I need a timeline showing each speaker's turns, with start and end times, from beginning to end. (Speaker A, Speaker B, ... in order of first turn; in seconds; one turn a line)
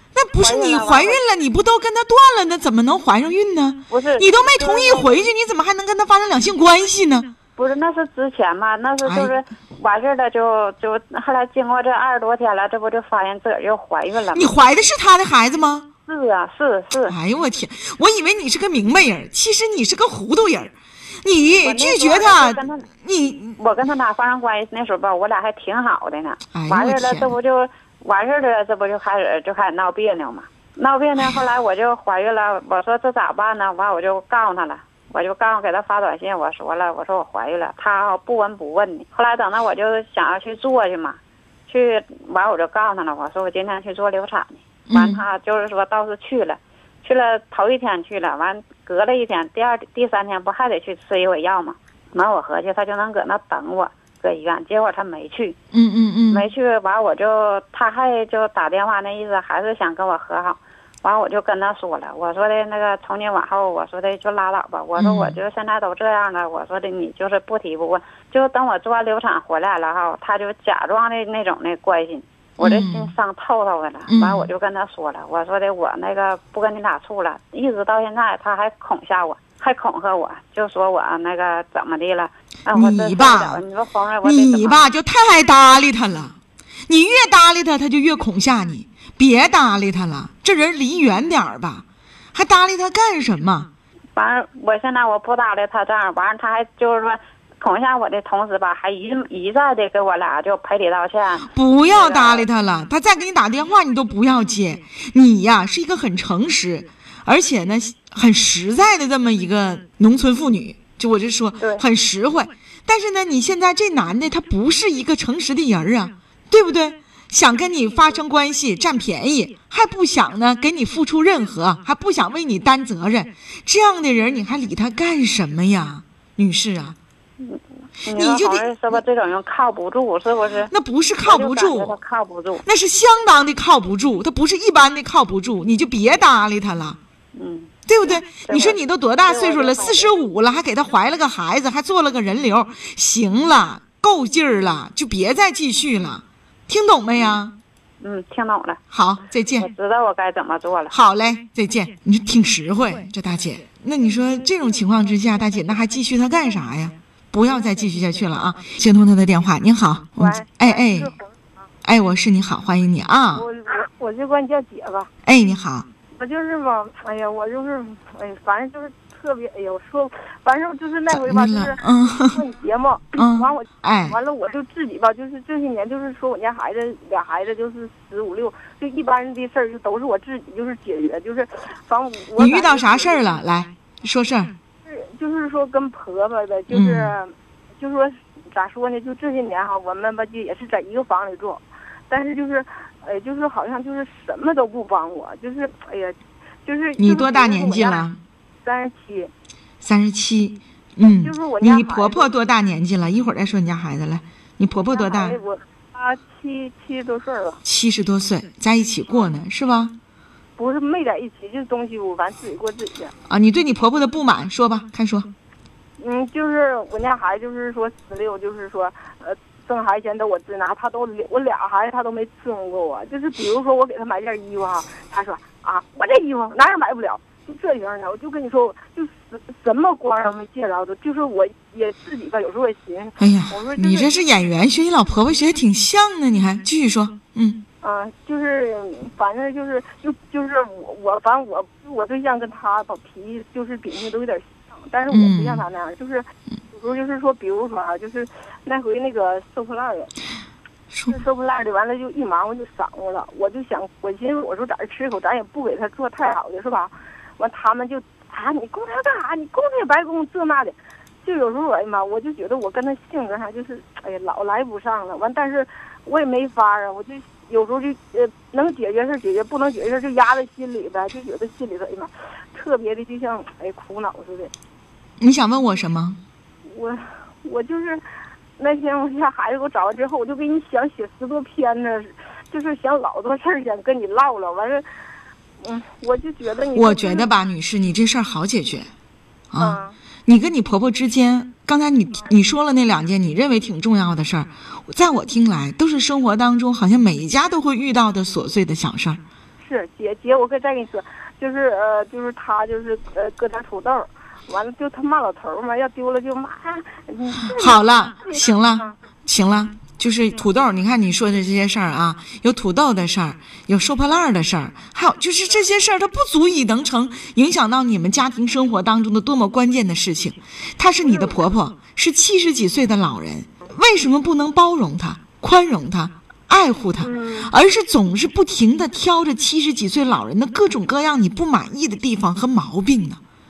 Speaker A: 0.1-7.3
Speaker B: 0.4-1.2
Speaker B: 3.9-5.2
Speaker B: 7.6-14.5
Speaker A: 9.0-9.4
Speaker A: 14.3-15.9
Speaker B: 16.1-17.2
Speaker A: 17.1-23.6
Speaker B: 21.6-22.9
Speaker B: 23.6-55.6
Speaker A: 26.5-27.3
Speaker A: 44.9-45.2
Speaker A: 55.7-56.5
Speaker B: 56.3-84.9
Speaker A: 64.9-65.4
Speaker A: 72.6-73.1
Speaker A: 74.1-74.5
Speaker A: 82.7-83.6
Speaker A: 84.2-86.3
Speaker A: 86.9-93.7
Speaker B: 94.2-102.5
Speaker A: 101.5-127.0
Speaker B: 111.6-111.8
Speaker B: 127.4-130.7
Speaker A: 128.1-129.0
Speaker A: 130.7-132.0
Speaker B: 131.2-132.6
Speaker A: 132.6-137.0
Speaker B: 137.3-140.1
Speaker A: 137.9-147.6
Speaker B: 147.2-147.4
Speaker B: 148.0-148.8
Speaker A: 148.9-149.7
Speaker B: 149.6-150.9
Speaker A: 150.9-161.1
Speaker C: 160.2-161.7
Speaker A: 161.8-163.4
Speaker C: 163.3-165.1
Speaker A: 165.2-165.9
Speaker C: 166.2-183.2
Speaker A: 171.1-172.4
Speaker A: 173.2-174.2
Speaker A: 182.4-184.5
Speaker C: 184.8-198.0
Speaker A: 186.7-187.2
Speaker A: 197.0-198.2
Speaker C: 198.6-199.3
Speaker A: 199.8-205.4
Speaker C: 201.1-202.3
Speaker C: 204.9-207.6
Speaker A: 207.7-210.0
Speaker C: 210.6-213.1
Speaker A: 213.3-215.3
Speaker C: 216.0-234.1
Speaker A: 233.2-237.6
Speaker C: 237.8-250.1
Speaker A: 245.1-245.6
Speaker A: 250.9-251.2
Speaker C: 251.1-274.5
Speaker A: 275.2-276.2
Speaker C: 276.6-278.0
Speaker C: 278.6-284.9
Speaker C: 285.6-287.3
Speaker A: 286.8-288.9
Speaker A: 289.5-299.2
Speaker C: 289.6-290.0
Speaker C: 299.6-309.0
Speaker A: 307.4-333.2
Speaker C: 321.0-321.4
Speaker C: 327.0-327.5